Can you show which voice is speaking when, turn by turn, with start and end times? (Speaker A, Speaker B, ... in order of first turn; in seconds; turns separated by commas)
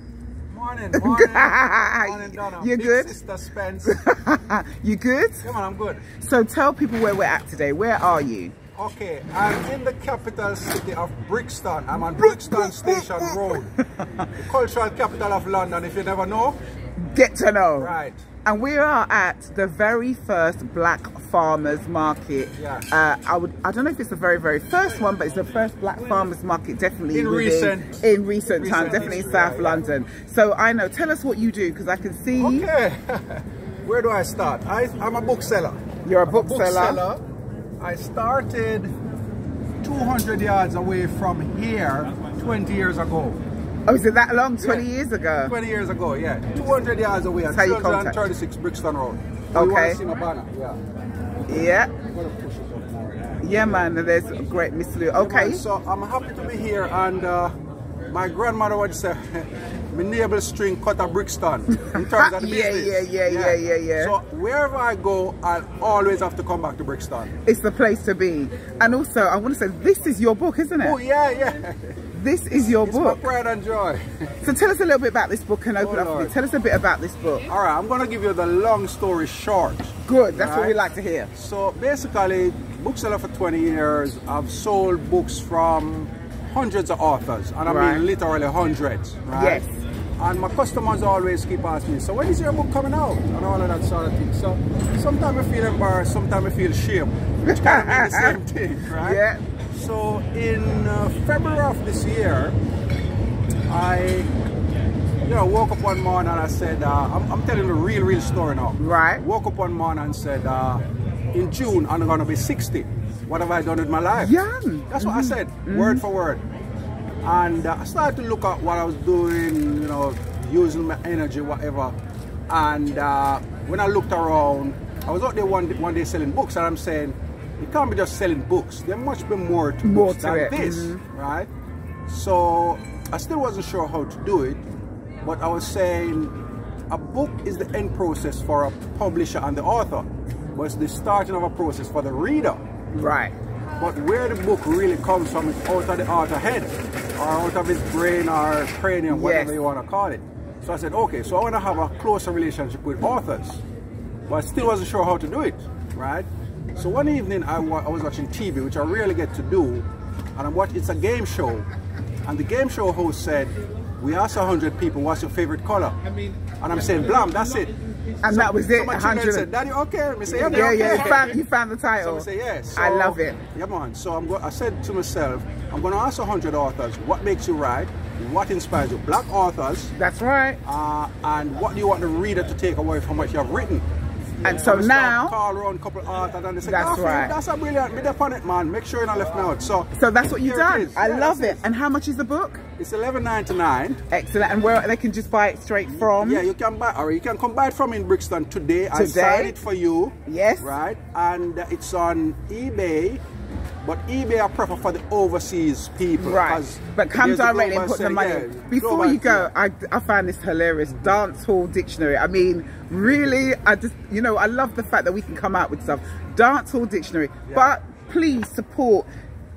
Speaker A: 0.5-4.0, Speaker B: 0.9-3.1, Speaker B: 3.8-5.5, Speaker A: 5.4-6.0, Speaker B: 6.2-8.5, Speaker A: 8.7-13.7, Speaker B: 12.2-14.1, Speaker A: 14.3-16.6, Speaker B: 17.0-32.7, Speaker A: 17.8-18.2, Speaker A: 22.6-22.9, Speaker A: 27.1-29.8, Speaker A: 32.4-37.2, Speaker B: 36.0-37.0, Speaker A: 37.8-38.9, Speaker A: 39.8-43.4, Speaker B: 43.9-45.5, Speaker A: 44.6-44.9, Speaker A: 45.5-50.8, Speaker B: 47.5-48.2, Speaker B: 49.5-50.0, Speaker B: 51.5-51.9, Speaker A: 52.0-53.9, Speaker B: 53.4-55.6, Speaker A: 55.1-57.5, Speaker A: 58.1-67.3, Speaker B: 61.8-64.1, Speaker B: 67.4-71.0, Speaker A: 70.8-72.0, Speaker B: 72.1-73.2, Speaker A: 72.8-74.3, Speaker B: 74.4-77.5, Speaker A: 75.8-76.3, Speaker A: 77.5-80.8, Speaker B: 80.0-81.3, Speaker A: 81.3-89.6, Speaker B: 87.6-88.0, Speaker B: 89.3-89.8, Speaker A: 90.2-99.2, Speaker B: 97.4-98.4, Speaker B: 99.0-99.4, Speaker A: 99.7-102.6, Speaker A: 103.7-104.3, Speaker A: 105.2-114.3, Speaker B: 108.8-109.2, Speaker B: 114.2-116.0, Speaker A: 114.9-116.4, Speaker A: 117.2-121.9, Speaker A: 122.5-131.5, Speaker B: 129.8-131.0, Speaker A: 132.1-134.6, Speaker A: 135.2-136.3, Speaker A: 136.9-142.6, Speaker B: 142.9-143.3, Speaker A: 143.8-153.6, Speaker B: 149.1-149.6, Speaker A: 154.3-161.7, Speaker A: 162.2-166.0, Speaker A: 166.6-171.4, Speaker B: 168.2-169.5, Speaker B: 170.3-173.4, Speaker A: 172.0-179.9, Speaker B: 179.9-180.6, Speaker A: 180.6-183.8, Speaker A: 184.4-191.6, Speaker B: 184.4-185.3, Speaker B: 186.6-187.3, Speaker B: 189.9-192.6, Speaker A: 192.8-194.0, Speaker B: 194.1-196.4, Speaker A: 195.9-203.2, Speaker B: 198.9-199.6, Speaker B: 200.2-200.8, Speaker A: 203.8-209.5, Speaker B: 206.2-219.1, Speaker A: 217.5-217.7